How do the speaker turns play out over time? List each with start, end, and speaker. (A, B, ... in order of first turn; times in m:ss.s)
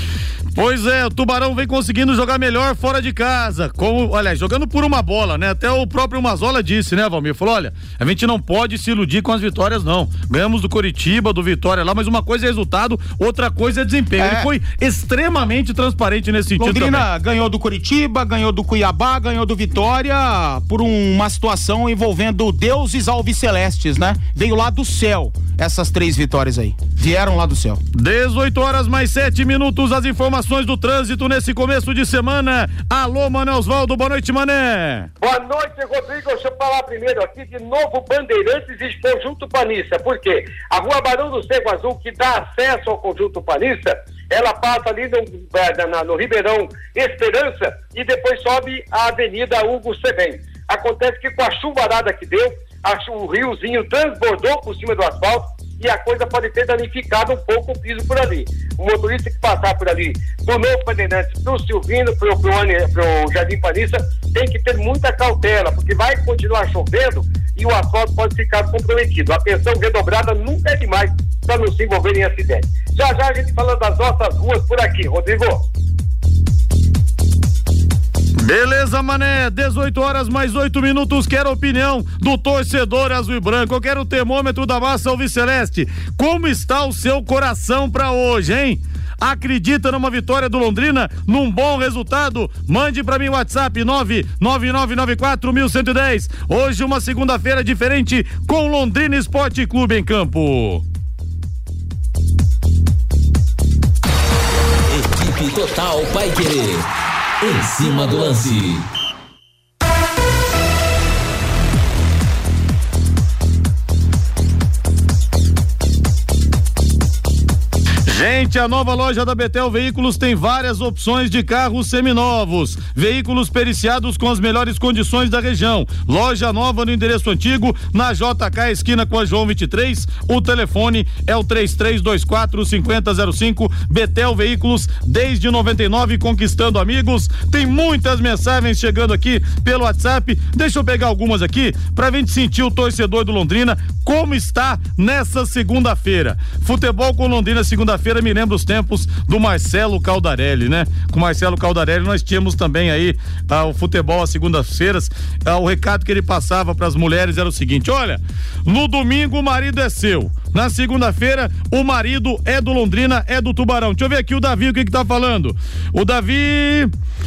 0:00.5-0:17.1 A
0:14.2-0:14.5 B
0:16.6-0:27.8 B
0:28.0-0:35.1 A
0:35.2-1:15.6 C
1:18.4-1:40.8 A
1:44.9-1:46.9 D
1:47.4-1:48.9 D
1:58.1-2:46.9 A